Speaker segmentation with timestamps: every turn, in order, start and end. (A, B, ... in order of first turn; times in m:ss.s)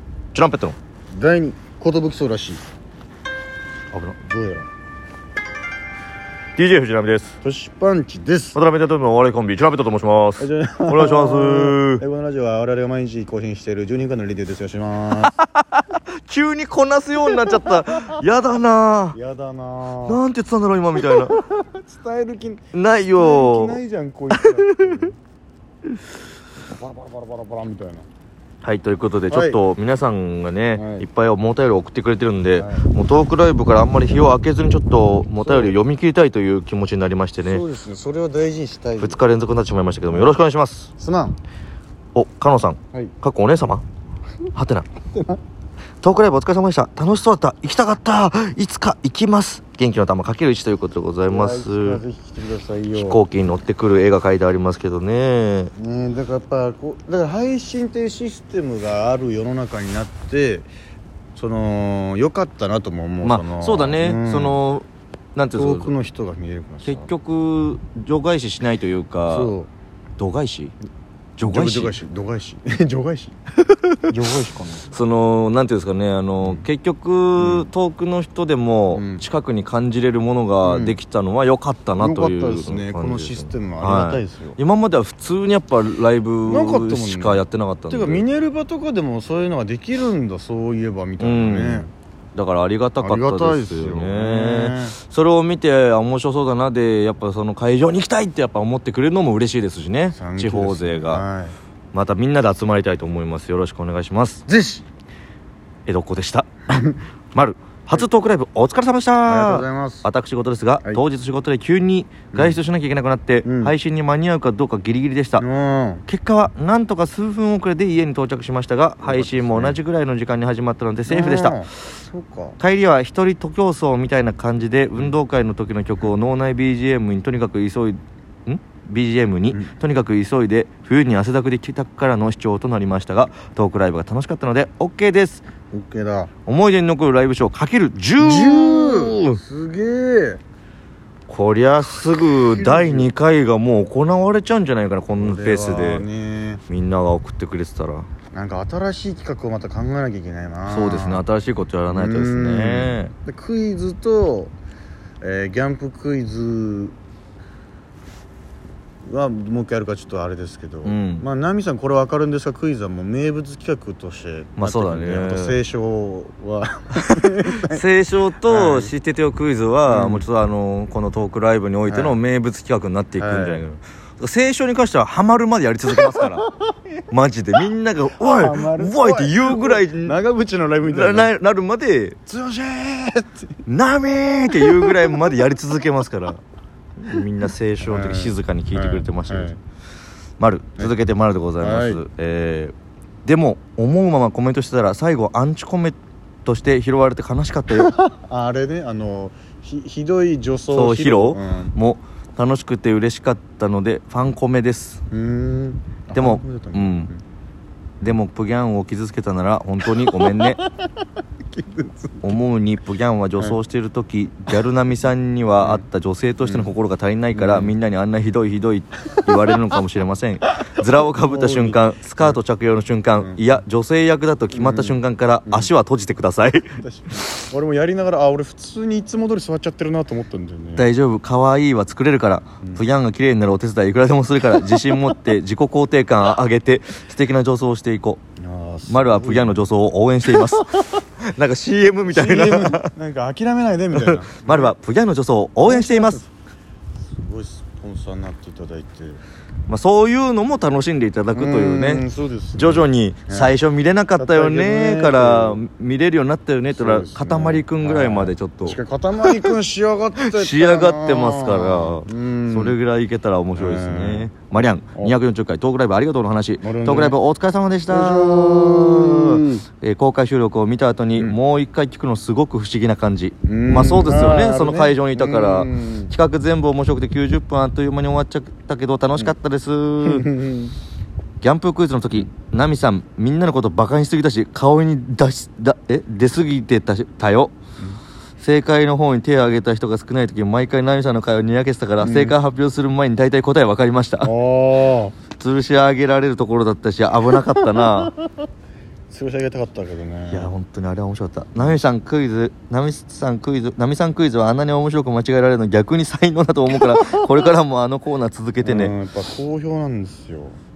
0:00.3-0:00.8 A
0:01.1-0:02.6 B
0:03.9-0:04.2 A
0:04.2-0:04.7 B
0:06.6-0:07.4 A
0:07.4-0:08.6 B
0:08.5-0:12.0 A
0:10.4-0:15.4 B
0:15.2-0:19.2 A
0:17.2-0:18.2 B
0:19.1-0:20.2 B
0:20.0-0:21.4 A
0:21.0-0:25.1 B
0:22.7-0:23.8 A
0:24.3-0:25.0 A
0:26.7-0:28.0 B
0:28.6-0:37.6 A
0:29.3-0:29.6 B
0:30.7-0:31.1 B
0:32.6-0:32.9 B
0:35.4-0:35.8 B
0:37.4-0:39.2 B
0:39.0-0:40.9 A
0:40.1-0:40.4 B
0:41.0-0:41.4 B
0:42.1-0:43.8 A
0:44.5-0:44.9 A
0:46.0-0:52.0 A
0:51.3-0:53.2 B
0:52.9-0:55.7 A
0:55.8-1:00.7 B
1:01.3-1:04.6 B
1:03.2-1:05.9 A
1:05.6-1:07.1 B
1:06.8-1:09.5 A
1:09.3-1:09.7 B
1:10.2-1:10.7 A
1:11.4-1:12.0 A
1:11.4-1:13.4 B
1:13.7-1:14.0 A
1:14.1-1:14.9 B
1:14.9-1:28.2 A
1:17.4-1:17.7 B
1:18.9-1:19.2 B
1:20.6-1:21.0 B
1:22.0-1:24.6 B
1:26.4-1:31.9 B
1:31.2-1:41.2 A
1:33.0-1:35.0 B
1:40.1-1:41.5 B
1:41.9-1:44.4 A
1:44.5-1:44.8 B
1:45.8-1:55.4 A
1:49.2-1:50.1 B
1:52.3-1:52.6 B
1:53.4-1:53.7 B
1:55.4-1:56.0 B
1:56.1-2:01.8 A
1:59.0-1:59.8 B
2:01.1-2:02.6 B
2:02.6-2:15.4 A
2:15.7-2:16.3 B
2:16.4-2:19.4 A
2:18.2-2:20.4 B
2:21.3-2:26.0 A
2:22.3-2:23.1 B
2:25.2-2:26.6 B
2:26.7-2:28.1 A
2:28.3-2:31.2 B
2:30.7-2:33.1 A
2:31.9-2:34.5 B
2:35.2-2:36.9 B
2:39.0-2:47.8 B
2:40.8-2:41.2 A
2:44.6-2:45.6 A
2:46.9-2:56.4 A
2:48.4-2:48.9 B
2:49.9-2:50.2 B
2:51.9-2:52.2 B
2:53.2-2:53.6 B
2:55.9-2:56.8 B
2:57.1-3:00.2 A
2:58.2-3:01.3 B
3:00.8-3:02.2 A
3:02.3-3:03.6 B
3:03.6-3:06.4 A
3:04.5-3:05.2 B
3:07.0-3:09.5 A
3:07.8-3:09.6 B
3:10.4-3:17.9 A
3:11.6-3:12.0 B
3:17.7-3:21.8 B
3:20.7-3:25.0 A
3:25.1-3:27.2 B
3:26.1-3:27.1 A
3:28.0-3:30.6 A
3:29.8-3:32.4 B
3:32.2-3:47.4 A
3:36.4-3:36.7 B
3:37.3-3:37.7 B
3:40.9-3:42.4 B
3:43.2-3:43.6 B
3:44.5-3:45.7 B
3:46.7-3:50.9 B
3:50.8-3:58.2 A
3:54.6-3:55.0 B
3:58.4-3:59.6 B
3:58.9-4:02.9 A
4:02.0-4:04.8 B
4:04.0-4:06.3 A
4:05.6-4:06.3 B
4:07.1-4:09.2 B
4:09.7-4:12.0 A
4:11.3-4:13.5 B
4:12.6-4:19.5 A
4:14.2-4:15.6 B
4:16.7-4:22.8 B
4:20.3-4:40.3 A
4:23.6-4:24.3 B
4:26.6-4:27.2 B
4:27.9-4:29.6 B
4:33.4-4:36.1 B
4:40.0-4:40.7 B
4:41.4-4:47.5 A
4:48.4-4:54.3 A
4:52.0-4:52.4 B
4:54.2-4:55.1 B
4:55.4-4:58.1 A
4:57.5-4:58.3 B
4:59.1-5:00.5 B
5:00.3-5:08.9 A
5:08.6-5:10.6 B